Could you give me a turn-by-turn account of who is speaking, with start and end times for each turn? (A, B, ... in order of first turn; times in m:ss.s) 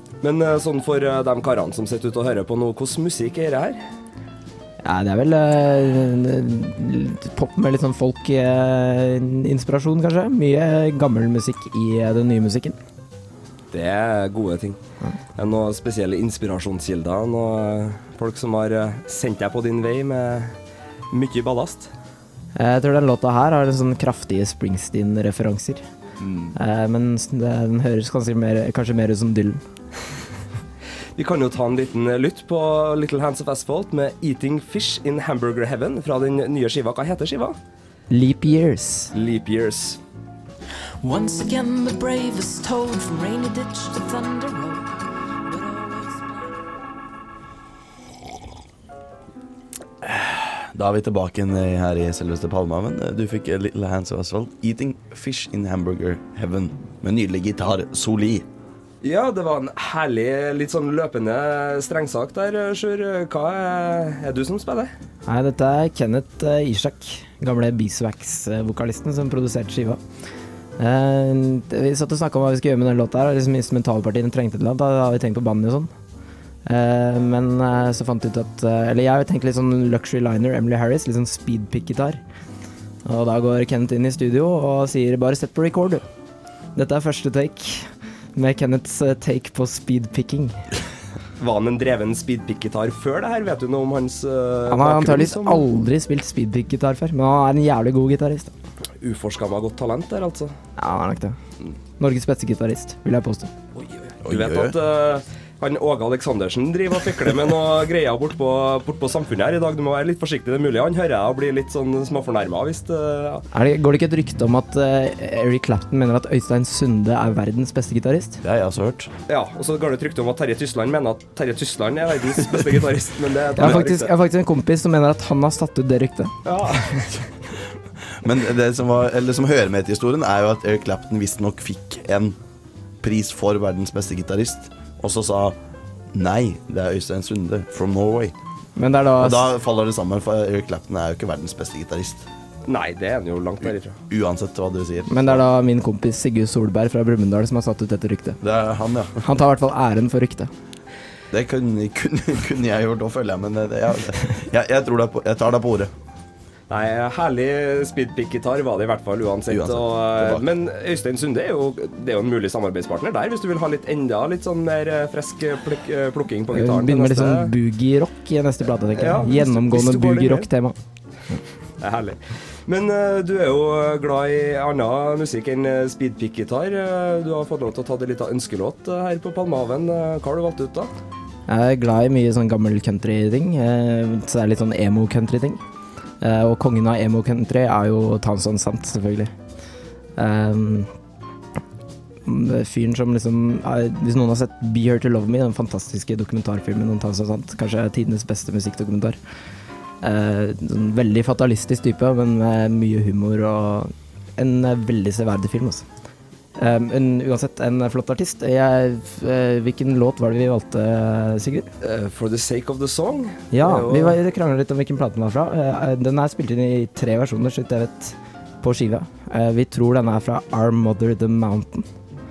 0:00.2-0:03.8 A
0:04.8-0:12.8 B
0:13.7-0:14.8 A
0:15.4-0:20.5 A
0:21.1-0:21.9 A
0:22.5-0:25.8 B
0:26.2-0:26.5 A
0:26.5-0:29.6 B
0:31.2-0:37.6 A
0:38.1-0:39.1 B
0:39.1-0:40.0 A
0:41.0-0:44.9 C
0:45.5-0:46.6 C
0:50.0-0:58.4 D
0:59.0-1:04.9 A
1:05.3-1:10.0 B
1:10.8-1:15.9 B
1:16.6-1:22.2 B
1:23.0-1:26.0 B
1:26.8-1:30.6 B
1:31.4-1:35.6 A
1:34.7-1:38.5 B
1:39.0-1:40.5 A
1:40.8-1:41.4 B
1:42.0-1:43.5 B
1:43.8-1:53.4 A
1:44.2-1:44.8 D
1:53.5-1:58.4 B
1:58.4-1:59.1 D
1:59.3-2:04.1 A
2:03.6-2:06.3 B
2:06.4-2:07.1 A
2:08.1-2:12.4 D
2:13.0-2:15.6 D
2:16.1-2:18.3 D
2:18.8-2:19.5 B
2:19.2-2:22.2 D
2:22.6-2:24.0 A
2:23.6-2:25.4 D
2:25.1-2:28.4 B
2:28.4-2:29.2 D
2:29.2-2:30.5 B
2:31.3-2:35.9 D
2:36.7-2:47.5 A
2:39.5-2:40.5 D
2:46.5-2:50.8 B
2:48.9-2:50.5 A
2:51.8-3:00.9 A
3:01.5-3:05.6 B
3:06.2-3:09.3 B
3:10.2-3:10.9 B
3:12.2-3:19.2 B
3:20.0-3:25.8 B
3:26.6-3:31.7 B
3:31.8-3:34.2 A
3:33.5-3:41.8 B